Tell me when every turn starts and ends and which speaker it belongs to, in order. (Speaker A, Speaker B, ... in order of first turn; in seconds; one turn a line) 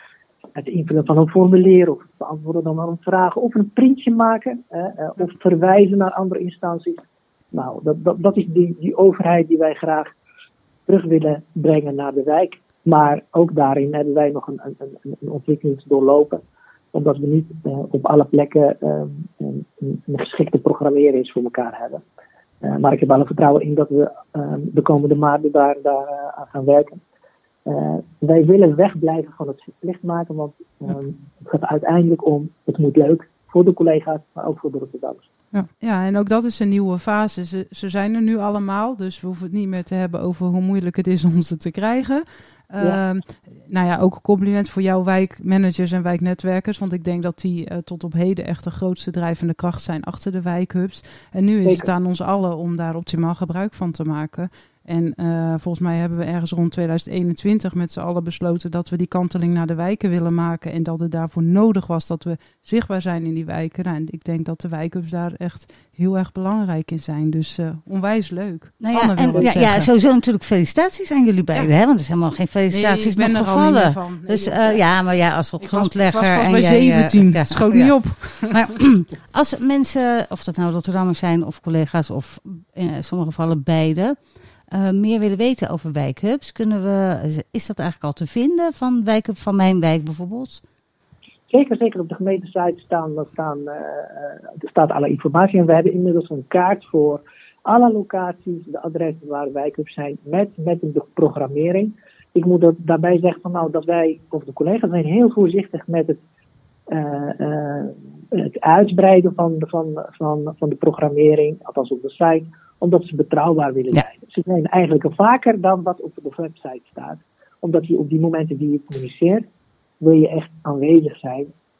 Speaker A: 0.6-10.1
Speaker A: 10.9-16.4
Speaker A: 16.9-22.0
Speaker A: 22.6-27.0
Speaker A: 27.6-35.2
Speaker B: 35.5-69.9
Speaker A: 51.6-51.9
Speaker C: 68.8-84.1
Speaker B: 72.7-74.8
Speaker B: 75.6-78.6
Speaker C: 84.7-90.6
Speaker A: 91.5-106.2
Speaker A: 106.9-119.4
Speaker A: 120.0-121.5